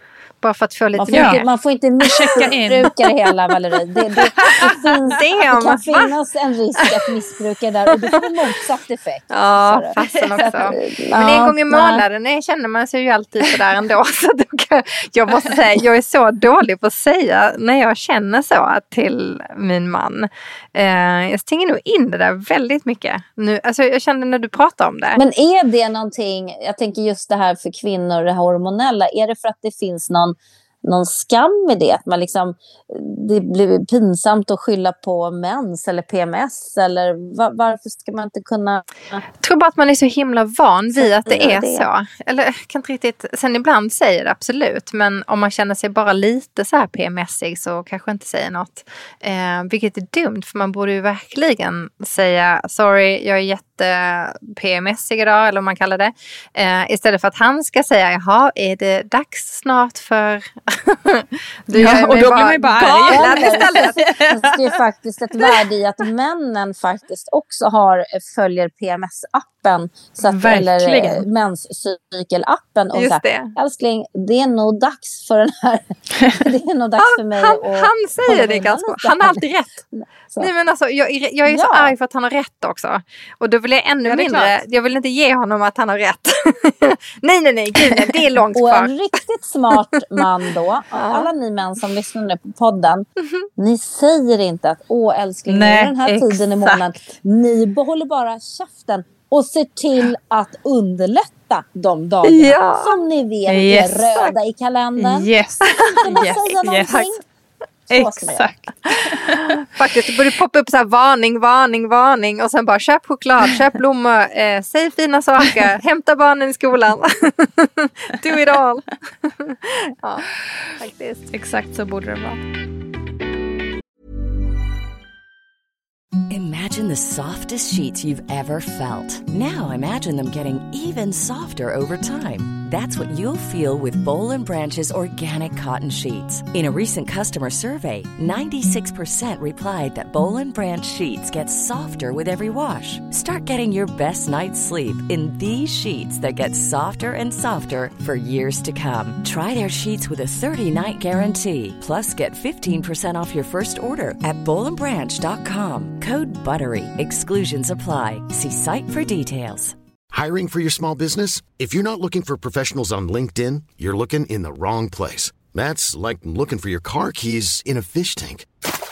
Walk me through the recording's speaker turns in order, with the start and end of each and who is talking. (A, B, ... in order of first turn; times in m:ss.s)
0:00.4-0:01.4 A
0:01.0-0:12.0 B
0:01.1-0:01.4 C
0:02.0-0:02.9 C
0:04.4-0:04.8 C
0:05.1-0:06.1 A
0:06.8-0:07.1 A
0:09.3-0:25.2 A
0:10.0-0:10.4 C
0:25.2-0:39.2 B
0:39.4-1:04.0 A
0:40.9-0:41.9 B
1:01.7-1:04.6 C
1:03.1-1:20.5 B
1:10.2-1:11.2 C
1:12.9-1:13.5 A
1:17.0-1:19.8 A
1:20.4-1:29.0 A
1:21.4-1:21.9 B
1:24.0-1:24.5 C
1:28.5-1:33.0 B
1:31.0-1:31.3 A
1:33.6-1:45.3 B
1:35.5-1:37.1 C
1:42.3-1:42.9 A
1:43.5-1:44.2 C
1:45.0-1:47.1 C
1:45.7-1:46.0 A
1:46.0-1:47.2 B
1:47.9-1:48.6 B
1:47.9-1:49.4 C
1:49.7-2:01.3 A
2:01.3-2:02.4 C
2:06.3-2:39.8 D
2:40.1-2:48.5 E